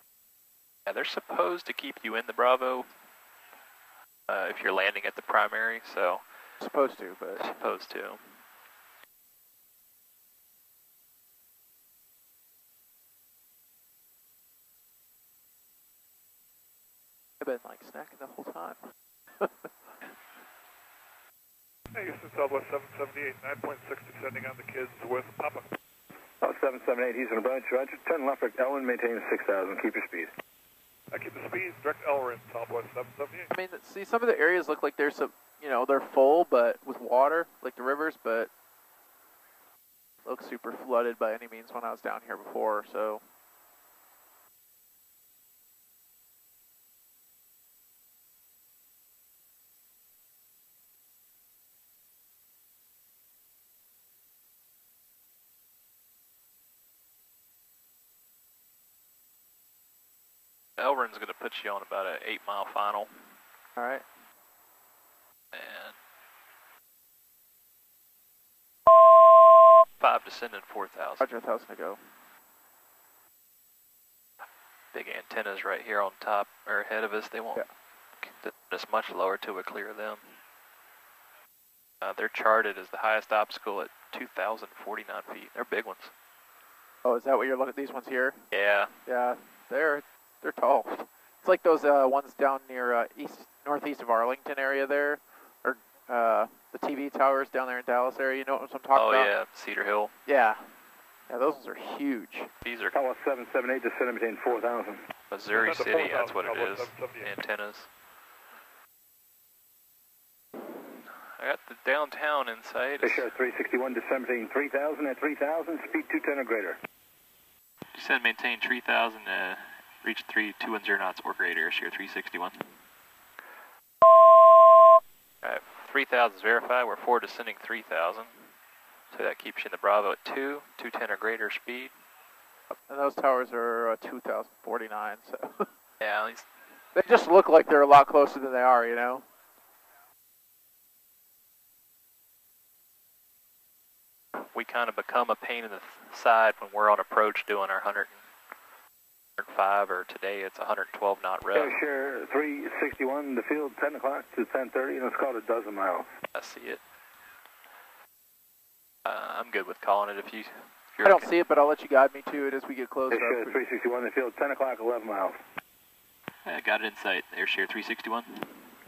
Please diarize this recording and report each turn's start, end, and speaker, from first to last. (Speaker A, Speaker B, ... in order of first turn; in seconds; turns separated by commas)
Speaker A: 0.9-2.9, Speaker A: 4.3-6.2, Speaker B: 6.6-7.4, Speaker A: 7.4-8.2, Speaker B: 17.4-18.8, Speaker B: 19.4-19.7, Speaker C: 21.9-25.6, Speaker D: 26.4-30.3, Speaker C: 31.1-33.5, Speaker B: 33.5-38.5, Speaker B: 40.2-43.2, Speaker A: 60.8-63.1, Speaker B: 63.8-64.0, Speaker A: 65.5-66.0, Speaker A: 70.0-71.2, Speaker B: 71.2-72.0, Speaker A: 74.9-77.6, Speaker A: 78.2-80.3, Speaker A: 82.0-86.1, Speaker B: 87.0-88.4, Speaker A: 88.5-88.9, Speaker B: 89.0-99.3, Speaker A: 98.9-100.1, Speaker B: 100.2-100.7, Speaker B: 101.3-102.5, Speaker A: 102.6-103.0, Speaker D: 102.9-105.0, Speaker A: 105.3-107.9, Speaker C: 105.5-107.3, Speaker A: 111.4-113.3, Speaker D: 113.0-116.8, Speaker A: 117.9-122.6, Speaker A: 125.4-128.5, Speaker A: 129.1-131.9, Speaker B: 132.7-135.7, Speaker A: 136.0-136.5, Speaker B: 136.9-139.2, Speaker A: 144.4-148.2, Speaker A: 149.4-151.8, Speaker D: 151.5-156.1, Speaker A: 156.3-156.8, Speaker A: 159.0-161.3, Speaker B: 161.0-163.6, Speaker D: 163.1-165.4, Speaker A: 166.4-168.6